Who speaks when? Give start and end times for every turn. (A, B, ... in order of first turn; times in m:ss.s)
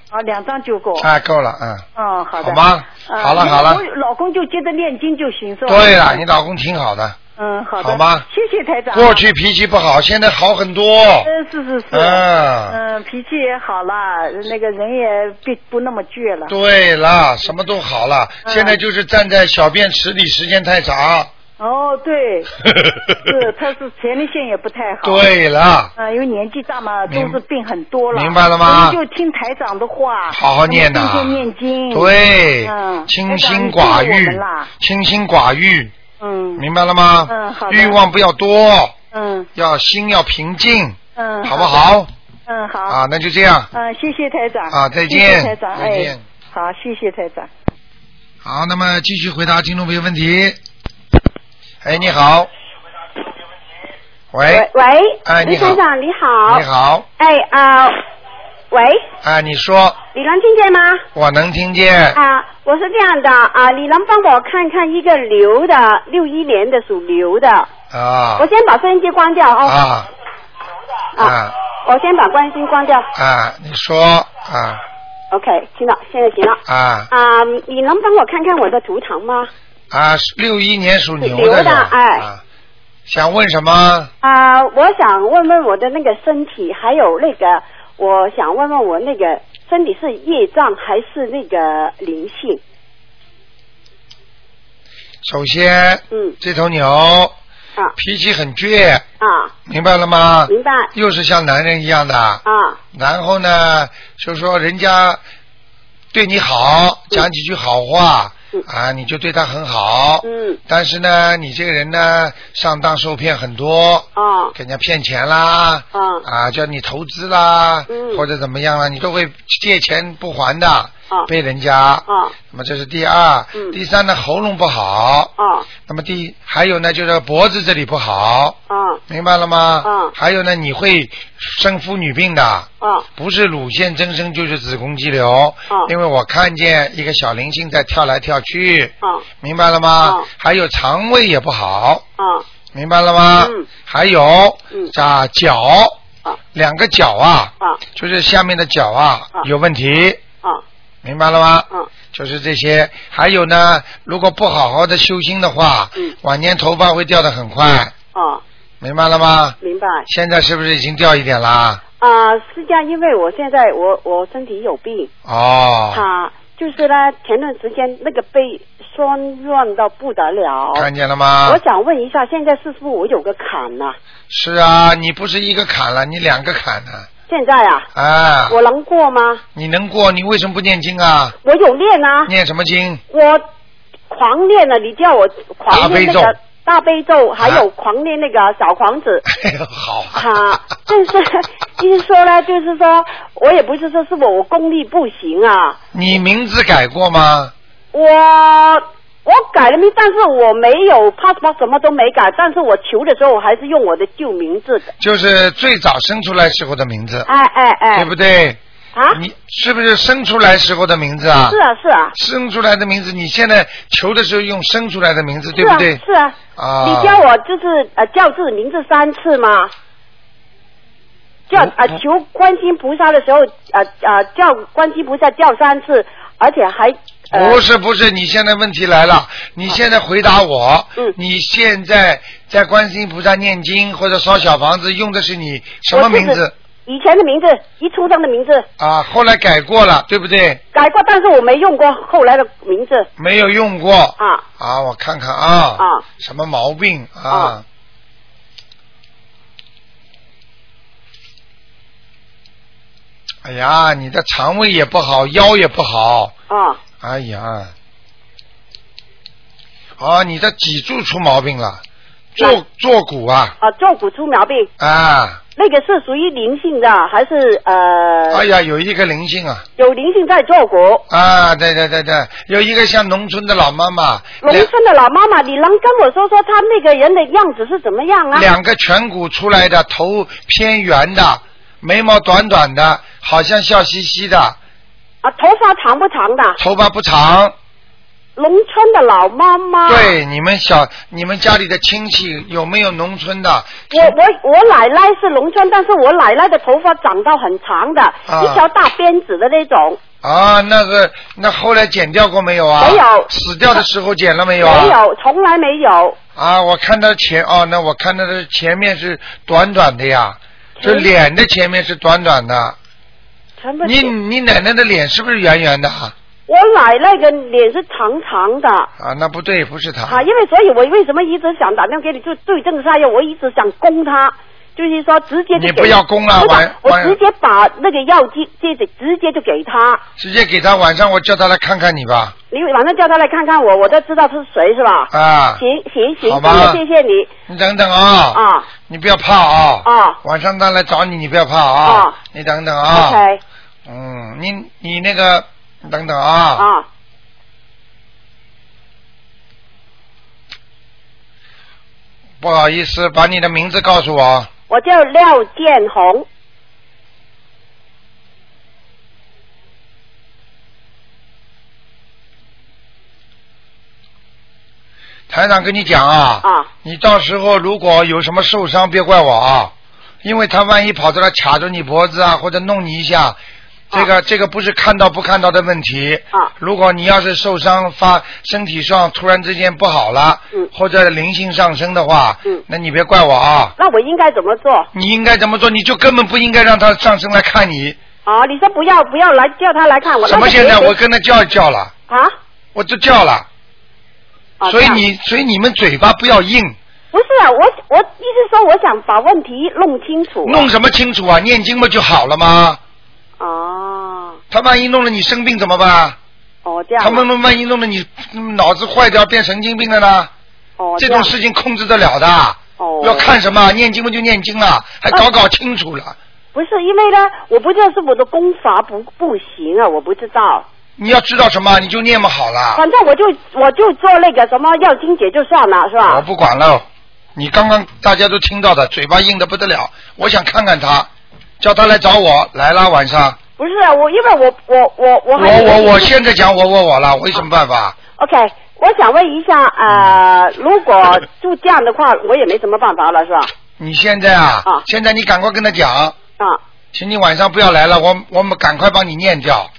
0:00.1-0:01.1 A
0:01.0-0:01.8 B
0:02.0-0:06.2 A
0:02.4-0:03.8 B
0:05.6-0:07.2 B
0:07.4-0:09.2 A
0:07.8-0:08.2 B
0:08.9-0:11.3 B
0:11.2-0:16.5 A
0:11.9-0:12.8 B
0:16.5-0:21.3 B
0:18.4-0:18.8 A
0:21.6-0:22.5 A
0:22.6-0:23.3 B
0:23.2-0:25.2 A
0:25.0-0:25.9 B
0:26.0-0:34.7 A
0:27.1-0:27.4 B
0:28.1-0:29.0 B
0:30.3-0:35.9 B
0:36.2-0:36.6 A
0:36.6-0:38.9 B
0:37.3-0:38.0 A
0:39.1-0:39.5 A
0:39.5-0:42.1 B
0:41.2-0:41.8 A
0:42.5-0:43.0 A
0:42.9-0:43.7 B
0:43.7-0:47.5 A
0:44.7-0:46.2 B
0:48.4-0:50.6 B
0:51.8-0:52.5 B
0:54.3-0:54.7 B
0:54.5-0:56.6 C
0:55.2-0:55.8 B
0:56.5-0:57.0 B
0:57.2-0:58.0 C
0:58.7-0:59.0 C
0:59.2-1:00.0 B
1:00.1-1:01.0 C
1:01.1-1:02.2 B
1:02.1-1:07.7 C
1:07.9-1:08.5 B
1:08.4-1:09.8 C
1:09.6-1:10.1 B
1:11.1-1:13.1 C
1:11.2-1:11.5 B
1:13.1-1:14.8 B
1:15.3-1:16.6 C
1:16.7-1:17.1 B
1:17.1-1:19.5 C
1:19.9-1:22.4 B
1:21.2-1:22.3 C
1:23.0-1:24.1 B
1:24.2-1:32.6 C
1:35.2-1:37.3 B
1:38.0-1:39.0 B
1:39.2-1:39.5 C
1:39.7-1:42.4 B
1:40.5-1:40.9 C
1:42.4-1:42.8 C
1:42.9-1:45.2 B
1:46.1-2:05.3 B
1:50.2-1:50.6 C
1:54.2-1:54.5 C
1:55.9-1:56.2 C
1:57.9-1:58.2 C
2:02.1-2:02.3 C
2:05.4-2:05.7 C
2:05.8-2:08.6 B
2:08.7-2:09.0 C
2:09.1-2:22.0 B
2:09.8-2:10.1 C
2:12.8-2:13.1 C
2:22.2-2:22.4 C
2:22.7-2:26.0 B
2:23.4-2:23.7 C
2:26.5-2:30.2 B
2:31.0-2:37.9 B
2:38.1-2:38.4 C
2:38.8-2:41.8 B
2:39.6-2:40.0 C
2:42.0-2:45.1 C
2:45.2-2:46.0 B
2:45.9-2:50.9 C
2:50.7-2:51.6 B
2:51.4-2:54.0 C
2:54.3-2:57.1 B
2:57.3-2:57.9 C
2:57.9-2:58.6 B
2:58.5-2:59.4 C
2:59.5-3:01.3 B
3:01.4-3:02.3 C
3:02.2-3:03.0 B
3:03.1-3:03.4 C
3:04.1-3:09.2 C
3:05.7-3:06.3 B
3:07.4-3:07.6 B
3:09.3-3:10.3 B
3:10.1-3:15.8 C
3:15.9-3:17.5 B
3:17.9-3:24.9 C
3:25.0-3:27.2 B
3:27.2-3:28.1 C
3:27.9-3:28.6 B
3:28.9-3:29.2 C
3:29.1-3:31.6 B
3:31.5-3:32.1 C
3:32.1-3:36.0 B
3:35.5-3:39.7 C
3:36.6-3:37.2 B
3:41.5-3:47.6 C
3:47.3-3:56.5 B
3:55.9-3:58.7 C
3:58.8-4:00.6 B
4:00.7-4:03.1 C
4:03.2-4:07.6 B
4:04.2-4:04.4 C
4:05.8-4:06.0 C
4:13.4-4:16.3 B
4:16.5-4:16.8 C
4:17.0-4:17.7 B
4:20.0-4:21.8 B
4:22.4-4:23.5 B
4:23.6-4:24.7 C
4:24.8-4:25.4 B
4:25.6-4:28.4 C
4:28.3-4:29.6 B
4:29.8-4:31.0 C
4:31.1-4:34.7 B
4:34.4-4:38.5 C
4:38.3-4:44.6 B
4:45.2-4:46.6 C
4:46.6-4:47.5 B
4:48.4-4:50.1 C
4:49.8-4:54.1 B
4:53.9-5:00.0 C
4:58.3-4:58.6 B
5:00.2-5:05.0 B
5:02.8-5:03.3 C
5:04.6-5:06.2 C
5:06.4-5:12.8 B
5:10.8-5:11.1 C
5:13.6-5:14.1 C
5:13.8-5:16.1 B
5:16.5-5:18.9 C
5:19.0-5:20.2 B
5:20.1-5:30.0 C
5:25.5-5:27.2 B
5:30.2-5:32.3 B
5:32.5-5:37.3 C
5:35.1-5:35.6 B
5:36.2-5:36.8 B
5:37.5-5:43.2 B
5:38.3-5:38.7 C
5:39.8-5:40.2 C
5:41.8-5:42.2 C
5:42.9-5:43.4 C
5:43.8-5:46.6 B
5:46.6-5:46.8 C
5:52.4-5:54.5 B
5:54.7-5:56.2 C
6:05.3-6:13.4 B
6:06.4-6:06.7 C
6:13.9-6:23.7 B
6:23.8-6:24.9 C
6:24.9-6:28.0 B
6:28.2-6:30.9 C
6:30.2-6:31.9 B
6:32.1-6:32.3 C
6:32.7-6:33.5 B
6:34.6-6:35.0 C
6:34.6-6:36.8 B
6:37.1-6:40.7 C
6:40.4-6:42.8 B
6:43.4-6:44.4 C
6:44.5-6:46.2 B
6:46.6-6:47.2 C
6:47.0-6:50.3 B
6:50.8-6:51.3 C
6:51.0-6:56.2 B
6:52.8-6:53.3 C
6:56.5-7:00.6 C
7:01.0-7:02.8 B
7:02.7-7:06.2 C
7:06.0-7:13.4 B
7:13.6-7:16.1 C
7:15.3-7:18.0 B
7:18.1-7:23.5 C
7:19.9-7:20.2 B
7:23.8-7:26.2 B
7:26.9-7:29.7 B